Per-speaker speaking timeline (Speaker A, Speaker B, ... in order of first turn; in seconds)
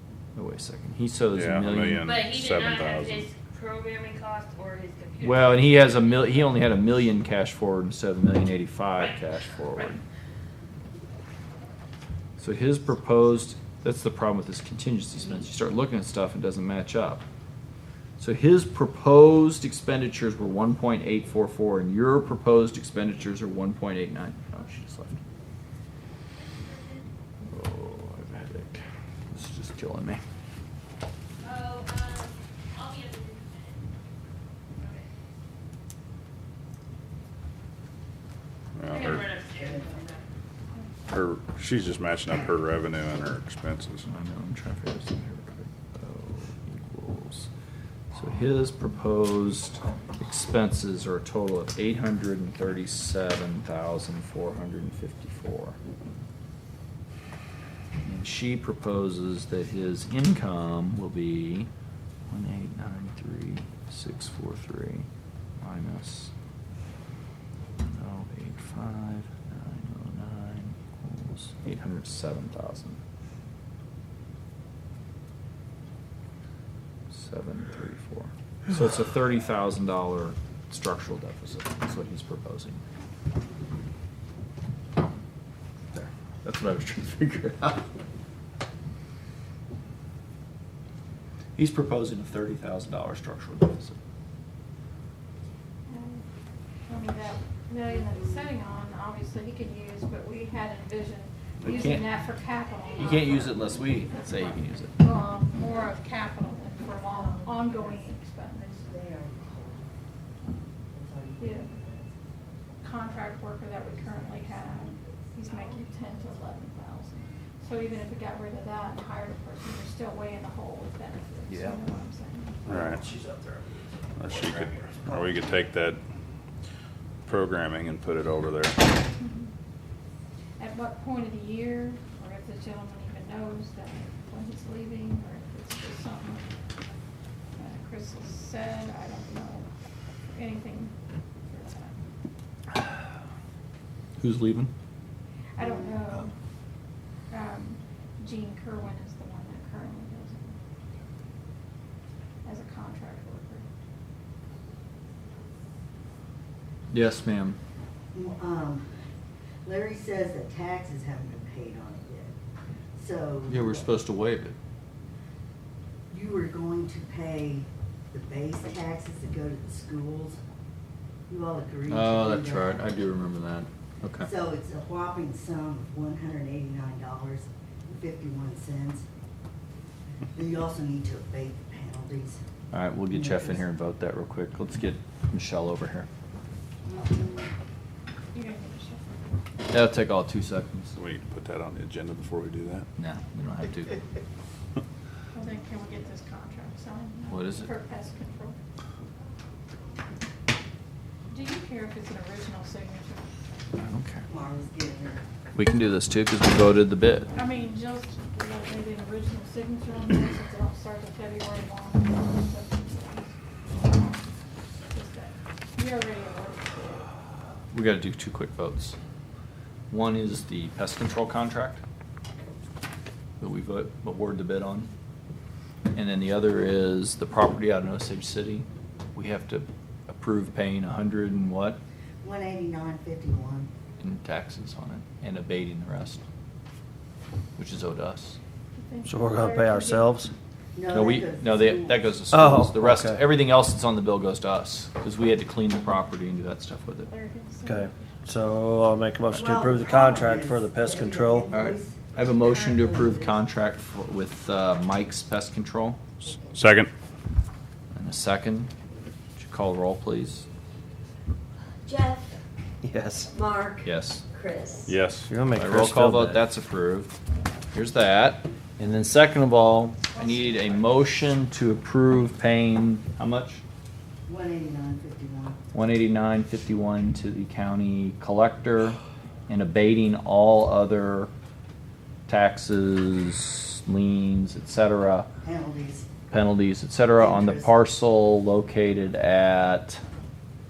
Speaker A: 0.3-2.1, 5.2-10.0, 12.4-17.2, 18.2-25.2, 27.5-30.2, 44.0-47.5, 48.1-55.8, 58.0-61.7, 62.3-65.1, 65.6-66.3, 67.8-73.0, 77.1-82.8, 85.9-87.8, 91.6-94.0, 101.6-102.1, 103.0-105.0, 121.5-121.9, 122.7-125.3, 144.2-144.7, 156.9-157.6, 163.5-164.6, 171.9-174.3, 182.7-186.1, 189.7-190.9, 193.0-194.0, 197.3-197.7, 203.8-204.2, 205.6-207.3, 217.7-219.0, 219.9-221.8, 223.4-224.9, 225.9-231.8, 234.0-236.2, 237.6-238.4, 240.9-247.1, 251.5-256.3, 257.9-258.7, 259.4-260.5, 263.8-264.2, 265.6-267.1, 267.7-273.6, 275.7-281.3, 282.3-285.3, 286.3-290.0
Speaker B: 1.3-3.3, 38.8-39.3, 41.1-44.0, 122.7-123.0, 124.2-126.0, 127.3-128.8, 190.9-192.9, 256.5-256.9, 264.9-265.3
Speaker C: 2.0-7.0, 8.9-9.2, 26.3-27.1, 31.4-33.9, 34.8-35.1, 38.8-40.3
Speaker D: 39.3-39.9, 107.1-110.0, 110.9-112.2, 113.8-116.2, 145.6-146.0, 158.1-158.9, 159.6-162.3, 163.0-163.9, 166.1-170.4, 171.3-172.9, 174.2-179.1, 180.3-182.4, 183.1-183.7, 186.9-187.5, 204.3-205.2, 232.2-233.7, 240.7-242.1, 249.3-253.4, 274.3-275.6, 285.4-286.1, 287.2-287.8
Speaker E: 95.9-96.2, 96.9-108.7, 111.4-111.7, 112.8-122.6, 129.2-129.5, 130.6-136.5, 137.6-139.7, 140.3-140.9, 141.5-142.0, 145.6-146.3, 147.3-150.6, 152.4-153.7, 188.3-189.0, 195.3-198.6, 201.3-203.3, 207.3-214.2, 214.9-217.1, 238.8-240.2, 247.1-248.2
Speaker F: 239.0-240.3, 242.3-243.2, 247.7-251.5, 262.9-263.2, 265.3-266.4
Speaker G: 261.9-262.4, 263.3-264.9